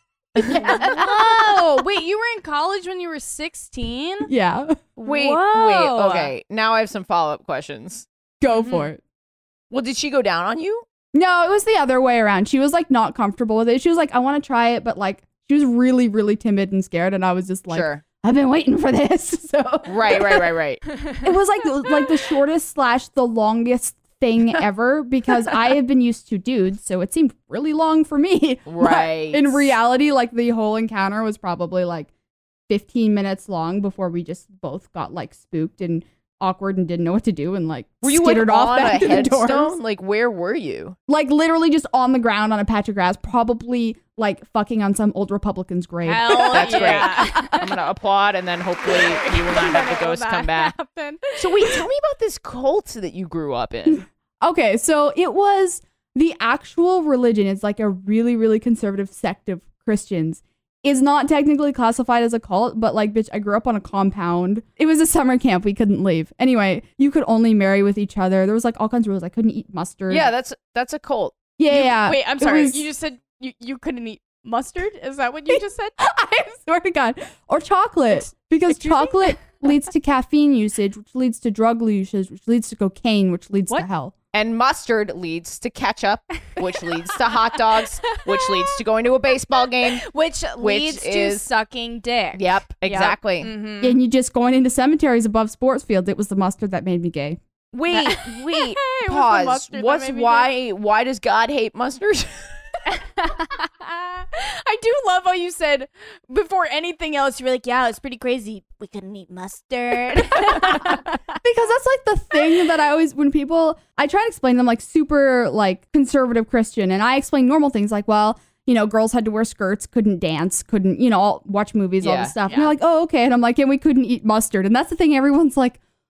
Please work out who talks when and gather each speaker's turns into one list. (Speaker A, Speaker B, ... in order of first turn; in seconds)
Speaker A: 0.3-1.4, 4.3-4.8, 8.4-9.0, 11.1-20.5, 21.2-32.1, 32.7-39.8, 41.1-47.6, 53.9-70.3, 71.6-72.8, 75.5-84.1, 93.8-97.4, 110.3-125.8
Speaker B: 0.4-1.2, 5.0-8.1, 9.7-10.8, 17.7-18.0, 19.9-20.8, 28.6-29.7, 38.0-41.0, 46.5-50.7, 51.4-54.0, 70.1-71.4, 84.3-90.0, 90.6-91.5, 92.3-93.5, 97.7-102.7, 122.0-122.3
Speaker C: 0.5-4.3, 5.0-6.3, 8.5-8.9, 46.0-47.7, 48.8-51.8, 71.7-76.0, 78.1-79.3, 86.6-88.8, 89.5-94.0, 97.9-100.5, 102.9-111.4, 122.5-122.7